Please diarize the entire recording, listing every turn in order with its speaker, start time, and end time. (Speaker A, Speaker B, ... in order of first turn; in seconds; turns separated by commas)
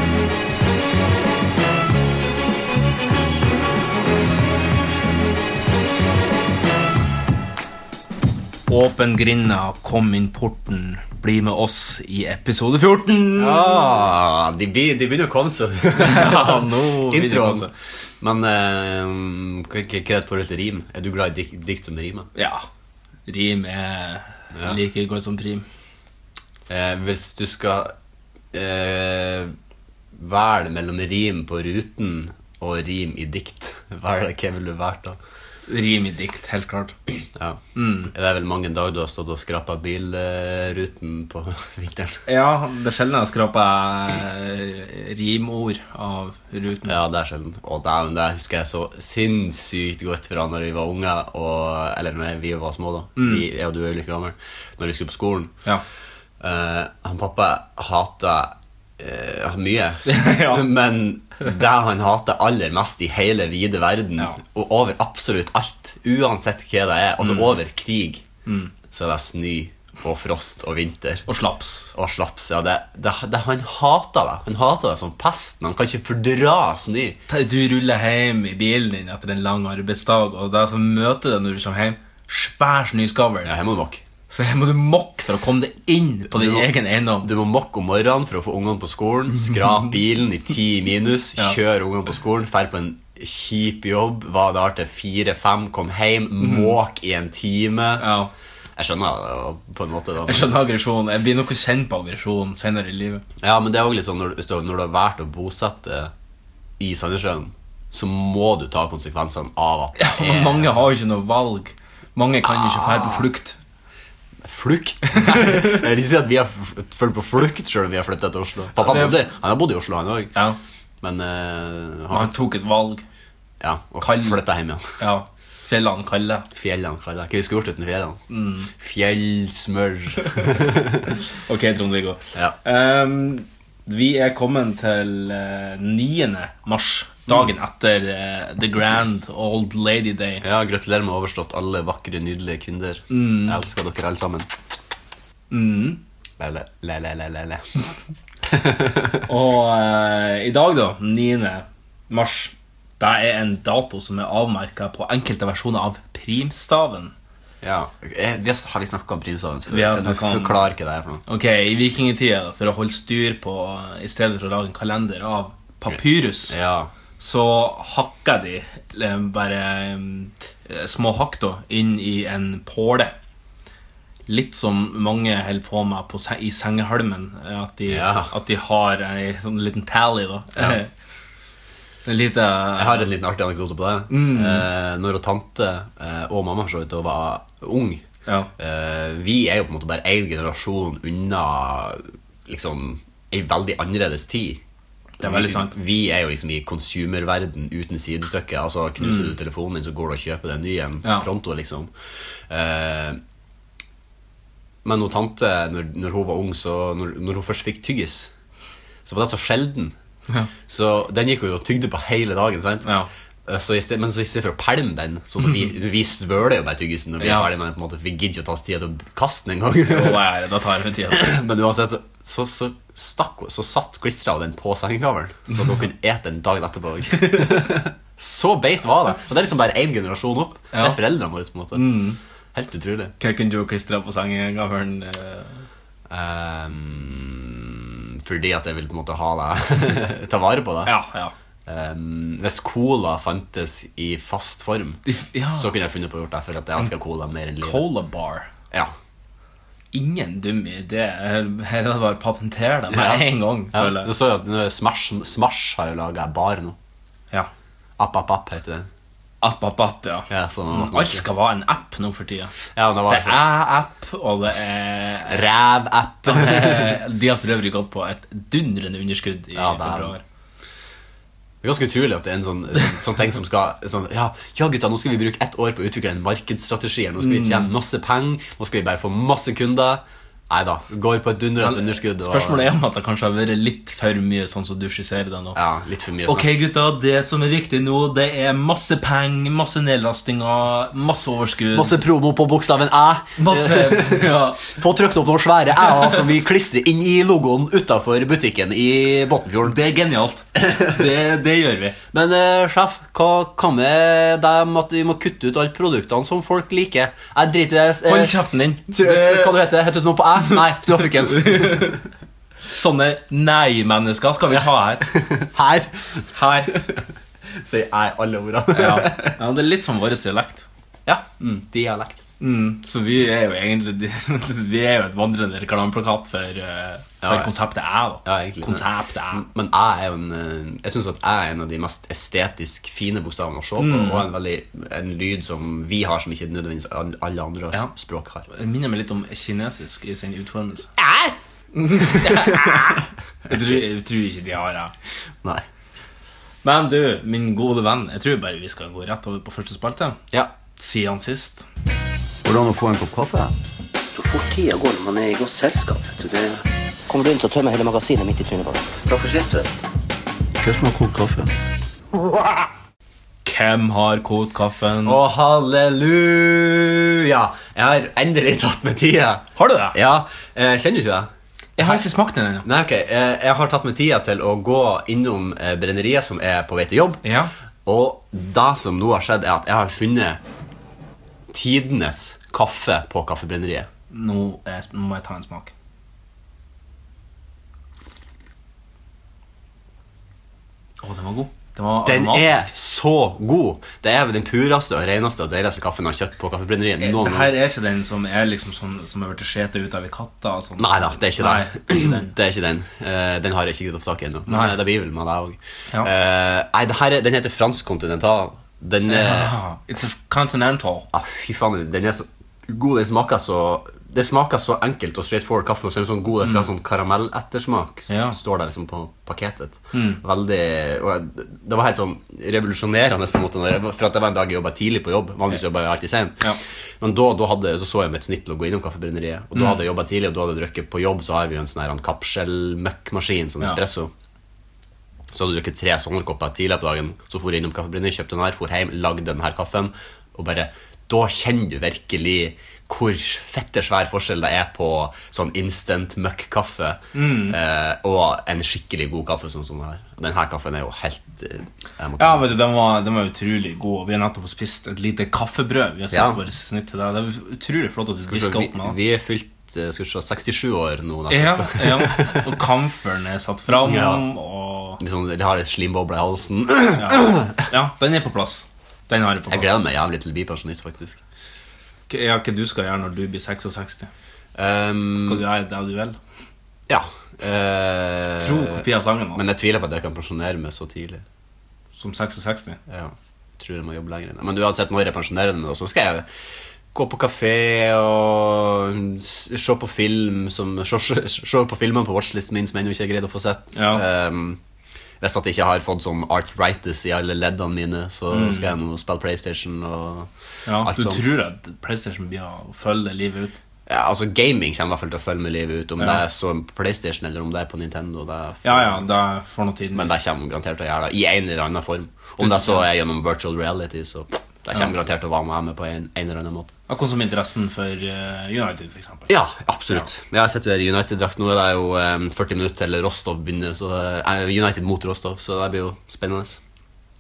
Speaker A: 8.7-14.0, Speaker B: 13.4-17.7, Speaker A: 16.0-17.7, Speaker B: 18.2-22.3, Speaker A: 22.4-22.7, Speaker A: 23.3-25.6, Speaker B: 26.7-27.9, Speaker B: 28.5-29.6, Speaker B: 30.1-35.2, Speaker A: 35.7-37.0, Speaker B: 37.4-42.2, Speaker A: 37.8-38.1, Speaker A: 42.3-47.0, Speaker B: 46.9-55.5, Speaker A: 53.2-53.5, Speaker B: 56.4-68.2, Speaker A: 60.1-60.7, Speaker A: 67.2-67.5, Speaker A: 68.5-68.7, Speaker B: 68.9-71.3, Speaker A: 71.3-71.9, Speaker B: 71.9-77.2, Speaker A: 77.3-83.5, Speaker B: 83.4-84.0, Speaker A: 84.3-87.3, Speaker B: 86.3-86.7, Speaker B: 87.2-98.1, Speaker A: 96.4-96.8, Speaker A: 98.0-98.3, Speaker B: 98.8-100.5, Speaker A: 100.3-103.2, Speaker B: 103.4-106.1, Speaker B: 106.8-110.7, Speaker A: 110.0-113.6, Speaker B: 112.4-113.3, Speaker B: 114.4-120.3, Speaker A: 115.2-115.8, Speaker A: 118.8-119.2, Speaker B: 121.0-122.3, Speaker A: 122.1-123.0, Speaker B: 123.6-125.0, Speaker A: 124.0-124.4, Speaker A: 125.0-126.5, Speaker B: 126.5-128.2, Speaker A: 128.3-128.7, Speaker B: 128.8-131.1, Speaker A: 131.4-140.4, Speaker B: 140.4-144.5, Speaker A: 143.1-143.6, Speaker A: 145.5-146.0, Speaker B: 146.4-147.7, Speaker B: 148.5-149.2, Speaker A: 149.3-157.1, Speaker B: 157.6-161.2, Speaker A: 159.7-160.6, Speaker A: 161.3-166.6, Speaker B: 165.9-166.9, Speaker A: 167.2-173.2, Speaker A: 174.3-180.9, Speaker B: 177.9-178.3, Speaker A: 182.1-183.1, Speaker B: 182.8-188.0, Speaker A: 184.1-184.7, Speaker B: 188.6-194.6, Speaker A: 195.2-195.7, Speaker B: 195.2-201.9, Speaker A: 199.0-199.3, Speaker B: 202.5-203.2, Speaker B: 204.8-208.3, Speaker B: 209.1-209.9, Speaker B: 210.7-212.9, Speaker A: 212.8-213.1, Speaker B: 213.5-220.2, Speaker A: 217.2-217.5, Speaker A: 219.9-221.3, Speaker B: 221.1-233.1, Speaker A: 230.7-231.0, Speaker A: 231.7-232.2, Speaker A: 233.2-235.7, Speaker B: 236.1-240.9, Speaker A: 240.8-241.3, Speaker B: 241.7-247.9, Speaker A: 245.1-245.7, Speaker A: 247.6-248.5, Speaker A: 249.9-254.1, Speaker B: 252.9-256.8, Speaker B: 258.0-258.9, Speaker A: 259.4-262.5, Speaker B: 260.3-261.3, Speaker B: 262.8-263.4, Speaker A: 263.1-265.4, Speaker B: 265.3-267.0, Speaker A: 266.2-270.2, Speaker B: 269.6-270.2, Speaker B: 271.6-282.7, Speaker A: 277.2-277.7, Speaker A: 281.6-285.6, Speaker B: 285.5-286.5, Speaker A: 286.3-292.0, Speaker B: 291.7-299.8, Speaker A: 293.4-294.8, Speaker A: 299.7-302.0, Speaker B: 300.6-301.0, Speaker B: 302.1-308.4, Speaker A: 308.1-309.6, Speaker B: 308.9-312.0, Speaker A: 311.3-312.0, Speaker A: 312.7-315.1, Speaker B: 314.5-319.4, Speaker A: 316.3-316.8, Speaker A: 318.7-320.6, Speaker B: 321.1-322.2, Speaker A: 322.4-329.4, Speaker B: 327.2-327.5, Speaker B: 328.2-338.5, Speaker A: 333.8-334.3, Speaker A: 338.5-340.9, Speaker B: 341.0-341.4, Speaker A: 341.8-344.9, Speaker B: 341.9-343.8, Speaker A: 346.6-350.2, Speaker A: 350.8-351.7, Speaker B: 352.4-353.5, Speaker B: 354.2-356.6, Speaker C: 357.1-359.1, Speaker B: 359.1-359.8, Speaker B: 360.6-361.5, Speaker A: 363.4-365.2, Speaker B: 365.0-372.0, Speaker A: 369.6-370.0, Speaker A: 371.8-372.7, Speaker B: 372.6-377.2, Speaker A: 377.2-377.5, Speaker B: 377.9-380.4, Speaker B: 381.5-383.9, Speaker A: 384.1-385.7, Speaker A: 391.0-392.7, Speaker B: 392.0-397.5, Speaker A: 397.0-402.3, Speaker B: 400.8-409.5, Speaker A: 404.5-404.7, Speaker A: 409.1-411.1, Speaker B: 411.1-426.5, Speaker A: 418.1-418.4, Speaker A: 419.9-420.2, Speaker B: 427.0-434.1, Speaker B: 435.3-452.5, Speaker A: 447.1-447.6, Speaker A: 452.2-459.0, Speaker B: 456.1-456.4, Speaker B: 458.2-462.5, Speaker A: 461.3-465.0, Speaker B: 463.7-464.2, Speaker B: 465.0-467.5, Speaker A: 467.0-469.7, Speaker B: 469.5-471.2, Speaker A: 472.1-474.1, Speaker B: 474.6-475.4, Speaker A: 475.2-476.2, Speaker B: 476.9-481.2, Speaker A: 478.3-479.4, Speaker A: 482.0-482.8, Speaker B: 482.9-486.3, Speaker B: 486.9-494.6, Speaker A: 493.7-494.0, Speaker B: 495.2-501.2, Speaker A: 498.3-498.7, Speaker A: 500.7-503.6, Speaker B: 503.9-509.1, Speaker A: 508.6-510.2, Speaker B: 509.9-516.7, Speaker A: 512.4-512.9, Speaker A: 516.9-519.3, Speaker B: 519.3-526.6